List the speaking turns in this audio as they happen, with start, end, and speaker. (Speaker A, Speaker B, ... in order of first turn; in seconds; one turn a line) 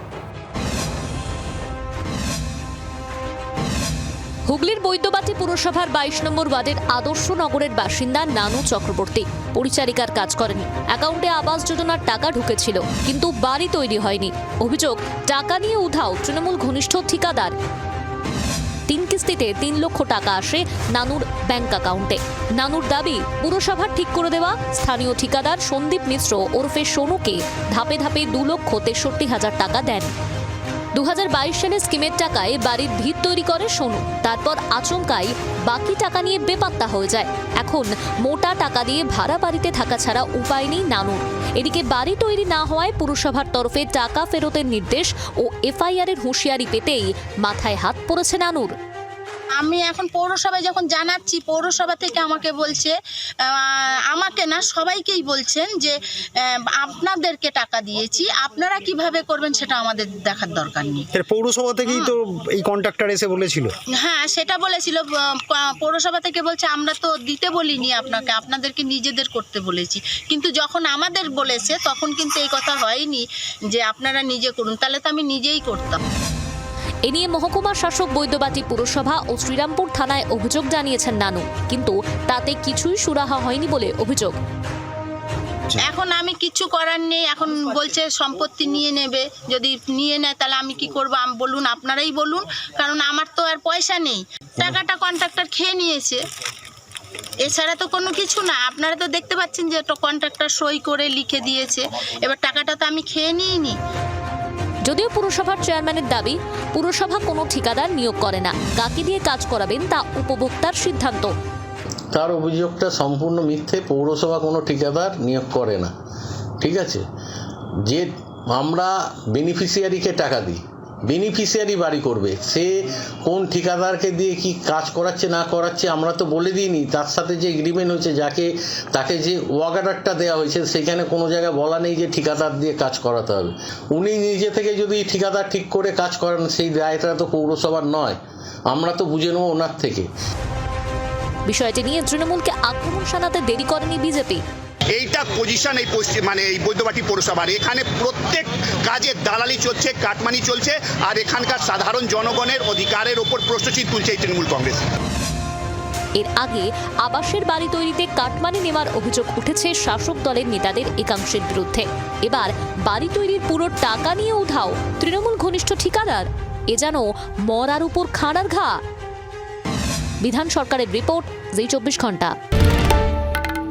Speaker A: 4.5-17.5
Speaker A: 18.9-30.1
Speaker A: 30.9-48.7
Speaker B: 49.6-52.9
Speaker B: 53.5-56.0
Speaker B: 56.5-61.1
Speaker C: 61.1-63.7
Speaker B: 61.9-62.1
Speaker B: 64.0-76.0
Speaker A: 77.0-84.3
Speaker B: 85.8-96.2
Speaker B: 97.4-103.8
Speaker A: 104.8-111.3
Speaker D: 112.1-115.9
Speaker D: 116.6-117.0
Speaker D: 117.8-138.2
Speaker D: 138.7-140.1
Speaker A: 141.5-144.4
Speaker E: 144.9-154.8
Speaker A: 156.2-168.8
Speaker A: 170.2-172.3